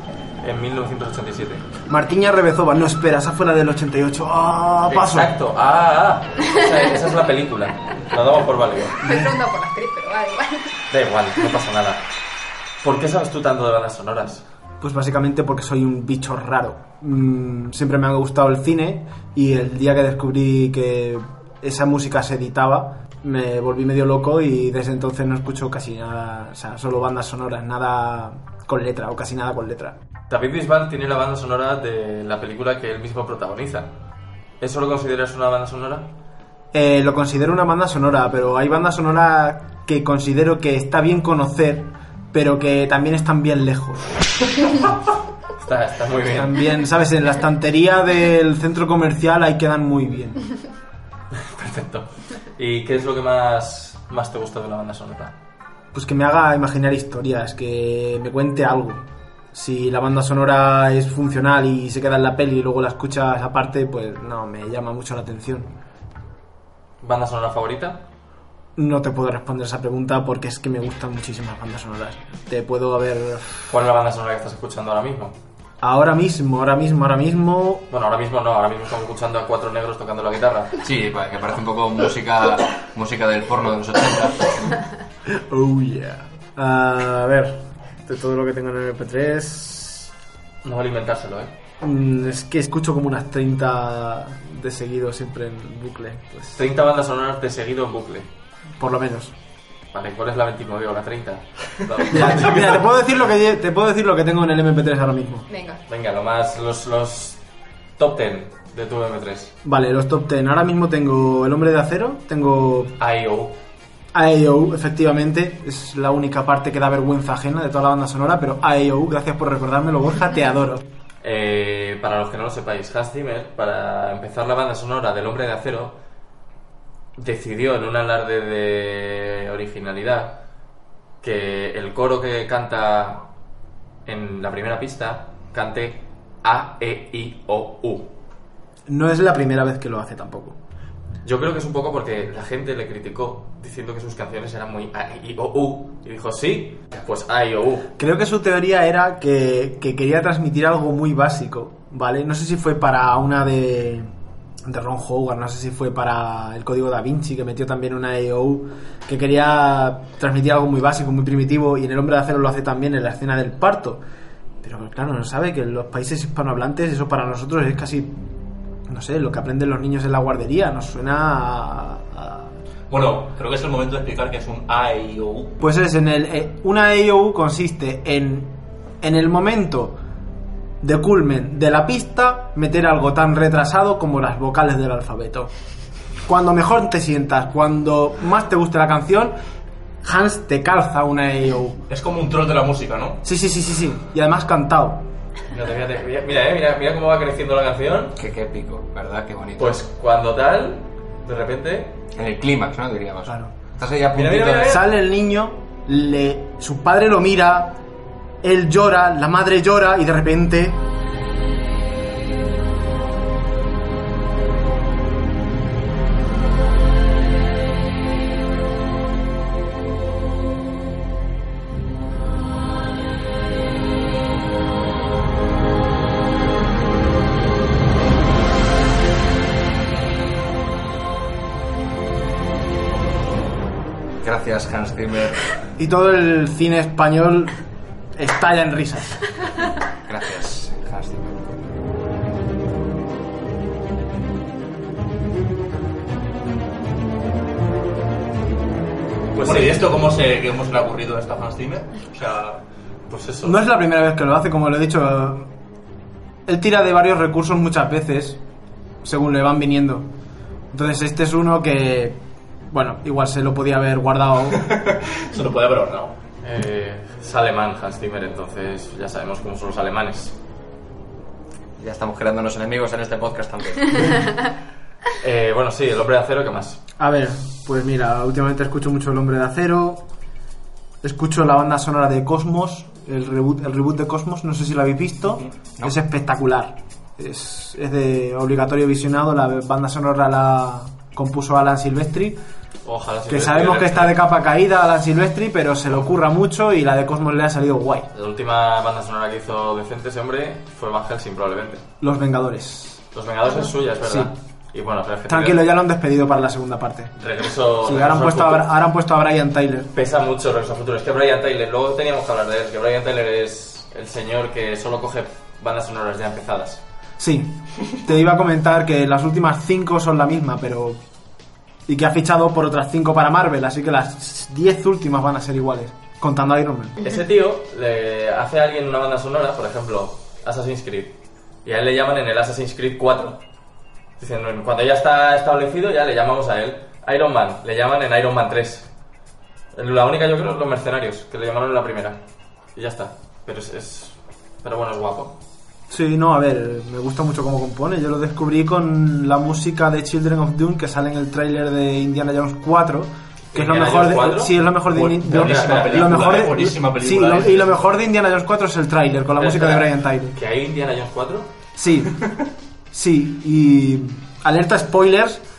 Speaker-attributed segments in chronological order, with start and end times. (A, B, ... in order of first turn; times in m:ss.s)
0:00.4-0:01.6 A
0:01.9-0:05.3 B
0:04.9-0:09.0 A
0:09.0-0:10.8 C
0:09.0-0:09.3 B
0:10.9-0:12.0 A
0:12.8-0:14.4 A
0:14.8-0:30.0 B
0:30.3-0:33.9 A
0:34.6-0:36.1 A
0:36.7-0:44.2 B
0:45.6-0:46.6 A
0:46.3-0:50.4 B
0:51.4-0:55.4 A
0:55.9-1:05.7 B
1:07.0-1:08.0 A
1:08.8-1:13.7 B
1:13.7-1:15.4 A
1:15.8-1:17.9 B
1:17.9-1:20.8 A
1:20.8-1:24.8 D
1:25.3-1:30.1 B
1:30.6-1:31.5 A
1:31.8-1:36.6 B
1:36.6-1:38.3 A
1:38.8-1:39.3 B
1:39.9-1:42.8 A
1:42.1-1:45.5 B
1:45.5-1:45.8 C
1:45.9-1:47.4 A
1:48.0-1:49.5 A
1:49.6-1:53.0 B
1:53.0-1:53.6 A
1:54.1-2:00.8 B
2:01.2-2:06.0 A
2:07.2-2:10.4 A
2:11.2-2:13.2 A
2:14.1-2:18.1 A
2:18.9-2:20.6 B
2:21.2-2:27.9 A
2:28.0-2:34.1 B
2:34.6-2:44.0 B
2:44.6-2:48.2 B
2:48.9-2:52.6 B
2:52.9-2:55.6 E
2:55.6-3:00.0 B
3:00.8-3:05.5 B
3:06.3-3:09.4 B
3:10.0-3:11.8 B
3:11.9-3:13.2 E
3:13.2-3:15.0 B
3:15.5-3:18.2 A
3:18.2-3:19.8 D
3:19.6-3:22.0 A
3:22.2-3:24.8 D
3:23.3-3:23.5 B
3:24.1-3:24.9 A
3:24.6-3:27.8 B
3:28.4-3:30.8 B
3:54.2-3:55.6 D
3:55.8-3:57.6 B
3:58.2-3:59.2 B
4:00.1-4:01.6 D
4:09.4-4:09.8 A
4:09.4-4:12.6 E
4:13.1-4:13.6 A
4:13.4-4:15.5 B
4:16.5-4:18.4 B
4:19.0-4:20.1 B
4:20.7-4:24.9 B
4:24.7-4:26.2 E
4:26.4-4:30.4 A
4:31.8-4:34.3 D
4:35.2-4:36.8 A
4:37.0-4:40.0 B
4:41.0-4:52.4 B
4:52.8-4:54.2 A
4:53.3-4:58.1 B
4:58.1-5:01.8 A
5:02.0-5:03.0 B
5:03.1-5:05.6 A
5:04.0-5:04.3 B
5:05.3-5:07.1 B
5:07.2-5:08.7 A
5:07.8-5:09.9 B
5:09.9-5:16.8 A
5:17.2-5:21.0 B
5:21.9-5:27.0 B
5:27.0-5:33.4 A
5:34.2-5:38.9 A
5:39.7-5:42.2 A
5:42.8-5:45.4 A
5:45.9-6:00.4 B
5:53.5-5:54.6 A
5:54.9-5:57.9 E
5:55.2-5:56.2 A
5:59.4-6:01.5 A
6:01.8-6:02.2 B
6:02.9-6:05.4 B